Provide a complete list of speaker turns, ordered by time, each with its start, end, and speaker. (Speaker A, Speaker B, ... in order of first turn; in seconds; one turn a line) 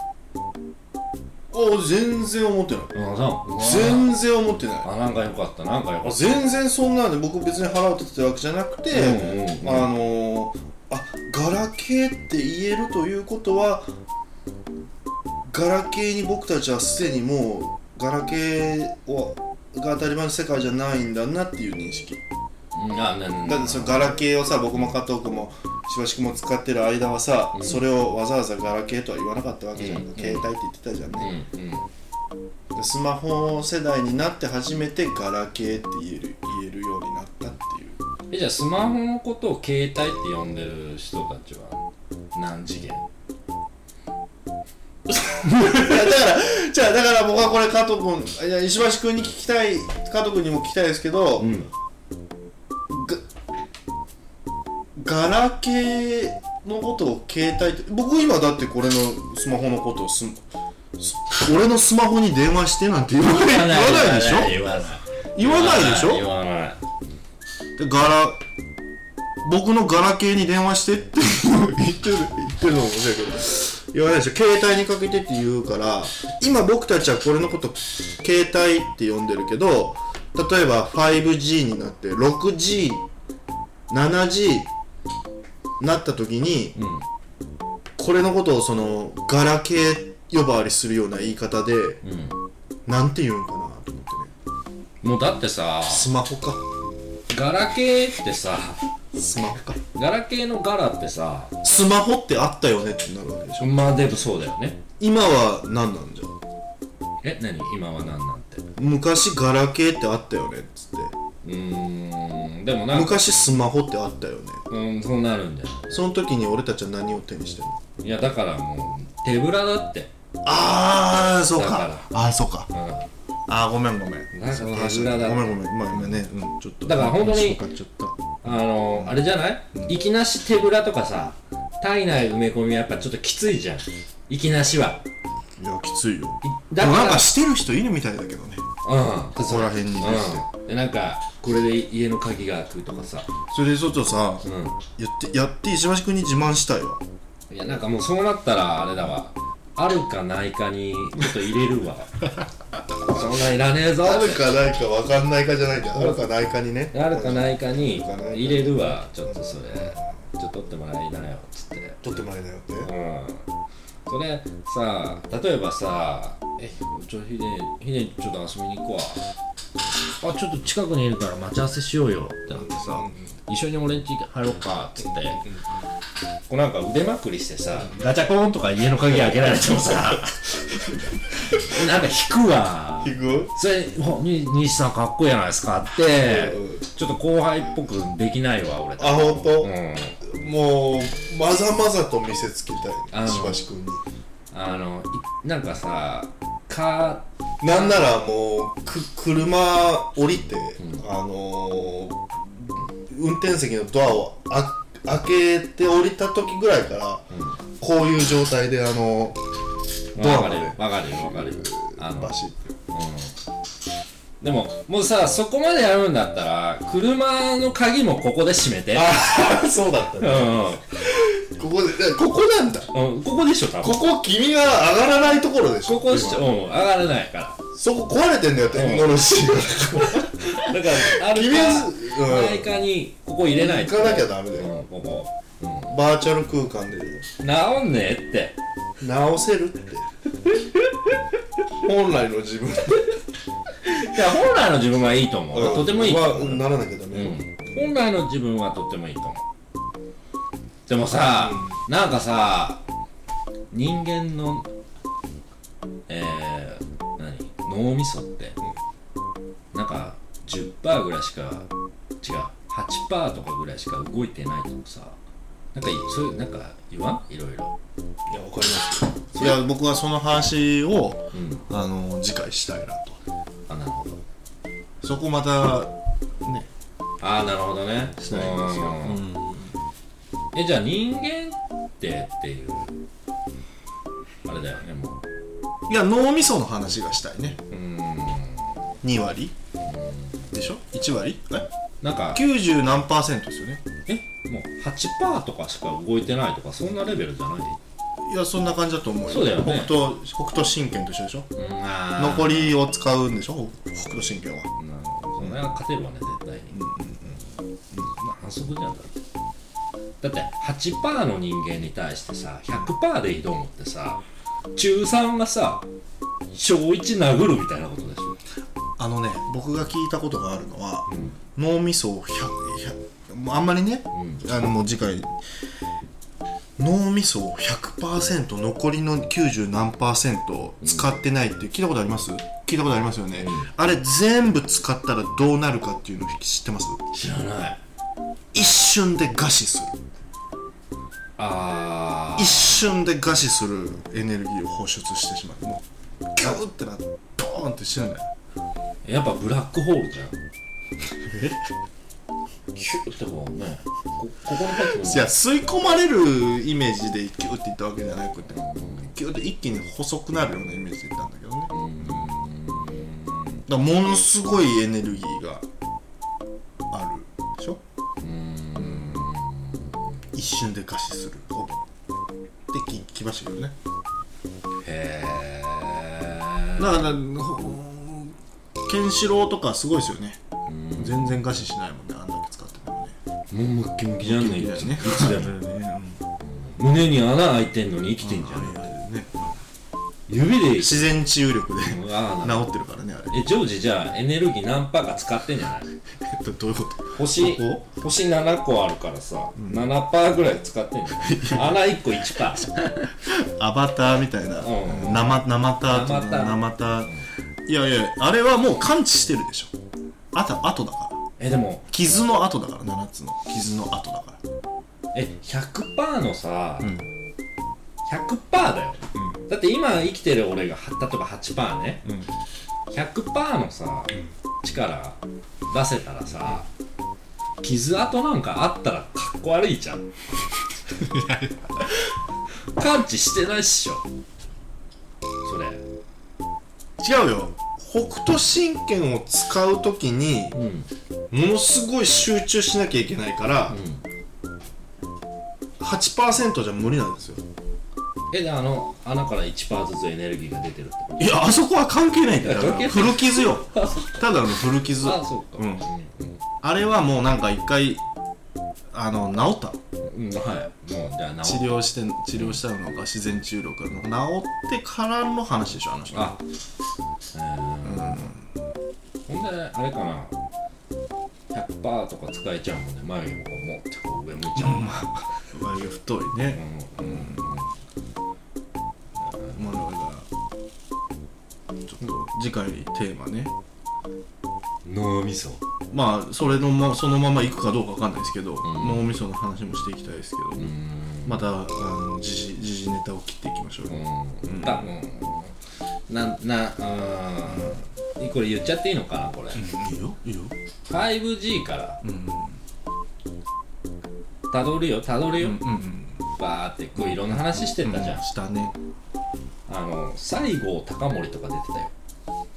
Speaker A: 1.5-2.9
Speaker B: 2.9-4.2
Speaker A: 3.5-4.9
Speaker B: 4.8-6.4
Speaker A: 6.0-13.9
Speaker B: 8.9-9.9
Speaker A: 15.5-22.2
Speaker B: 22.7-24.1
Speaker A: 23.4-31.4
Speaker B: 27.5-27.8
Speaker B: 29.8-30.5
Speaker B: 31.2-31.9
Speaker A: 32.7-38.0
Speaker B: 38.3-43.1
Speaker B: 45.4-46.1
Speaker A: 45.4-51.5
Speaker B: 51.4-51.7
Speaker A: 52.9-53.2
Speaker A: 55.0-60.4
Speaker A: 61.0-64.6
Speaker B: 63.2-66.8
Speaker A: 65.3-66.3
Speaker A: 67.8-68.4
Speaker A: 69.4-83.0
Speaker A: 83.9-84.7
Speaker A: 85.8-86.7
Speaker B: 86.8-87.0
Speaker A: 88.0-92.0
Speaker B: 92.0-92.4
Speaker A: 92.8-94.3
Speaker B: 95.0-96.1
Speaker A: 95.9-96.7
Speaker B: 97.3-98.8
Speaker A: 99.1-99.8
Speaker B: 99.9-101.6
Speaker A: 101.6-103.8
Speaker B: 103.6-104.8
Speaker A: 105.0-106.3
Speaker B: 107.2-108.7
Speaker A: 108.8-111.1
Speaker B: 111.4-113.3
Speaker A: 112.9-114.6
Speaker B: 114.7-116.0
Speaker A: 115.9-117.8
Speaker B: 118.0-120.1
Speaker A: 120.4-122.7
Speaker B: 121.5-122.1
Speaker B: 122.7-123.1
Speaker A: 123.5-129.2
Speaker B: 124.3-126.2
Speaker B: 126.8-127.6
Speaker B: 128.4-135.0
Speaker A: 135.6-138.6
Speaker B: 136.4-137.3
Speaker B: 138.8-143.3
Speaker A: 139.4-140.4
Speaker A: 143.5-144.4
Speaker B: 144.4-144.8
Speaker A: 145.0-147.0
Speaker B: 147.5-152.2
Speaker B: 153.0-154.5
Speaker A: 154.0-160.0
Speaker B: 155.9-156.3
Speaker B: 156.9-162.0
Speaker A: 162.0-162.9
Speaker B: 162.8-163.4
Speaker B: 164.1-169.3
Speaker B: 170.2-175.4
Speaker A: 172.5-173.3
Speaker A: 175.0-175.8
Speaker B: 176.5-180.6
Speaker A: 179.1-179.7
Speaker B: 181.5-190.2
Speaker A: 183.0-183.5
Speaker A: 186.1-186.9
Speaker A: 189.0-194.0
Speaker B: 193.1-193.6
Speaker B: 194.5-198.2
Speaker A: 197.6-207.2
Speaker B: 200.8-201.1
Speaker B: 207.3-207.6
Speaker A: 207.8-209.4
Speaker B: 210.2-212.3
Speaker A: 210.2-212.6
Speaker B: 212.9-213.3
Speaker B: 214.4-219.3
Speaker A: 218.9-222.9
Speaker B: 220.2-221.0
Speaker B: 222.9-224.1
Speaker A: 223.8-226.5
Speaker B: 225.8-227.6
Speaker A: 227.7-232.7
Speaker B: 228.7-229.2
Speaker B: 230.1-235.9
Speaker A: 233.5-234.7
Speaker A: 235.9-237.2
Speaker B: 237.4-238.6
Speaker A: 239.0-240.1
Speaker A: 241.7-243.1
Speaker B: 243.8-249.4
Speaker A: 245.5-247.9
Speaker B: 250.9-252.8
Speaker A: 251.1-251.8
Speaker B: 253.7-254.7
Speaker B: 256.1-258.6
Speaker B: 259.7-261.7
Speaker B: 262.2-265.2
Speaker B: 265.7-267.7
Speaker A: 268.3-273.2
Speaker B: 269.3-269.6
Speaker B: 271.3-271.6
Speaker B: 273.7-274.2
Speaker A: 275.0-276.7
Speaker B: 277.2-279.2
Speaker A: 278.2-279.8
Speaker B: 280.5-283.0
Speaker B: 284.4-285.2
Speaker A: 285.9-287.6
Speaker B: 287.7-288.8
Speaker A: 289.0-289.5
Speaker B: 289.8-290.4
Speaker A: 290.5-291.7
Speaker B: 292.0-292.4
Speaker A: 292.3-293.8
Speaker B: 294.1-297.8
Speaker A: 298.2-301.5
Speaker B: 299.3-300.0
Speaker B: 301.5-302.8
Speaker A: 302.2-304.7
Speaker B: 304.8-306.8
Speaker A: 306.7-307.4
Speaker B: 308.0-309.2
Speaker B: 310.2-314.2
Speaker B: 314.7-315.9
Speaker B: 316.5-318.4
Speaker A: 319.0-325.3
Speaker B: 321.1-321.4
Speaker B: 324.1-324.4
Speaker A: 326.8-337.0
Speaker B: 330.8-331.2
Speaker B: 333.3-333.7
Speaker B: 337.1-337.8
Speaker A: 338.5-340.0
Speaker B: 341.4-342.8
Speaker A: 342.4-345.8
Speaker A: 346.3-348.3
Speaker B: 349.0-350.4
Speaker A: 351.2-351.6
Speaker B: 352.7-355.3
Speaker A: 354.7-362.3
Speaker B: 358.5-359.1
Speaker B: 361.7-363.6
Speaker A: 363.7-365.6
Speaker A: 366.9-367.8
Speaker B: 368.2-370.0
Speaker A: 368.8-369.3
Speaker A: 370.3-371.9
Speaker A: 372.7-373.8
Speaker B: 374.8-377.2
Speaker A: 376.8-380.4
Speaker B: 380.7-381.4
Speaker A: 381.0-383.1
Speaker B: 383.5-385.5
Speaker A: 384.2-386.2
Speaker B: 386.4-388.9
Speaker A: 388.2-389.6
Speaker B: 390.3-391.2
Speaker A: 390.7-393.4
Speaker B: 391.9-392.7
Speaker B: 393.3-395.9
Speaker A: 396.2-397.8
Speaker B: 397.1-402.8
Speaker A: 399.6-399.9
Speaker A: 401.1-402.2
Speaker A: 402.9-407.1
Speaker B: 404.6-407.2
Speaker A: 407.7-409.7
Speaker A: 410.3-411.2
Speaker B: 411.4-411.9
Speaker A: 411.9-414.4
Speaker B: 415.1-417.0
Speaker A: 416.8-417.1
Speaker B: 418.1-422.0
Speaker A: 419.1-419.4
Speaker A: 422.0-422.3
Speaker B: 422.9-426.7
Speaker A: 426.3-426.6
Speaker B: 427.6-430.1
Speaker A: 430.9-431.5
Speaker B: 432.8-434.0
Speaker B: 435.4-435.8
Speaker A: 437.0-440.6
Speaker B: 440.5-440.9
Speaker A: 441.3-443.8
Speaker B: 443.7-444.0
Speaker A: 445.8-447.4
Speaker B: 448.3-451.4
Speaker A: 451.2-455.9
Speaker B: 452.4-456.4
Speaker A: 456.6-458.0
Speaker A: 458.9-459.8
Speaker B: 460.1-462.6
Speaker A: 461.4-466.4
Speaker B: 466.1-466.4
Speaker B: 467.3-468.3
Speaker A: 467.8-468.4
Speaker B: 469.3-470.3
Speaker B: 471.5-475.1
Speaker A: 474.6-477.5
Speaker B: 476.5-477.7
Speaker B: 479.2-479.6
Speaker A: 479.5-480.3
Speaker A: 481.9-483.5
Speaker B: 484.8-485.6
Speaker A: 485.9-490.7
Speaker B: 488.6-489.1
Speaker B: 490.6-491.4
Speaker A: 491.2-495.0
Speaker B: 493.9-495.5
Speaker B: 496.1-499.6
Speaker A: 497.5-497.8
Speaker A: 499.5-500.5
Speaker B: 500.9-502.0
Speaker A: 502.0-502.6
Speaker B: 504.5-505.6
Speaker A: 505.4-506.2
Speaker B: 506.3-508.2
Speaker A: 507.0-508.7
Speaker B: 509.7-511.9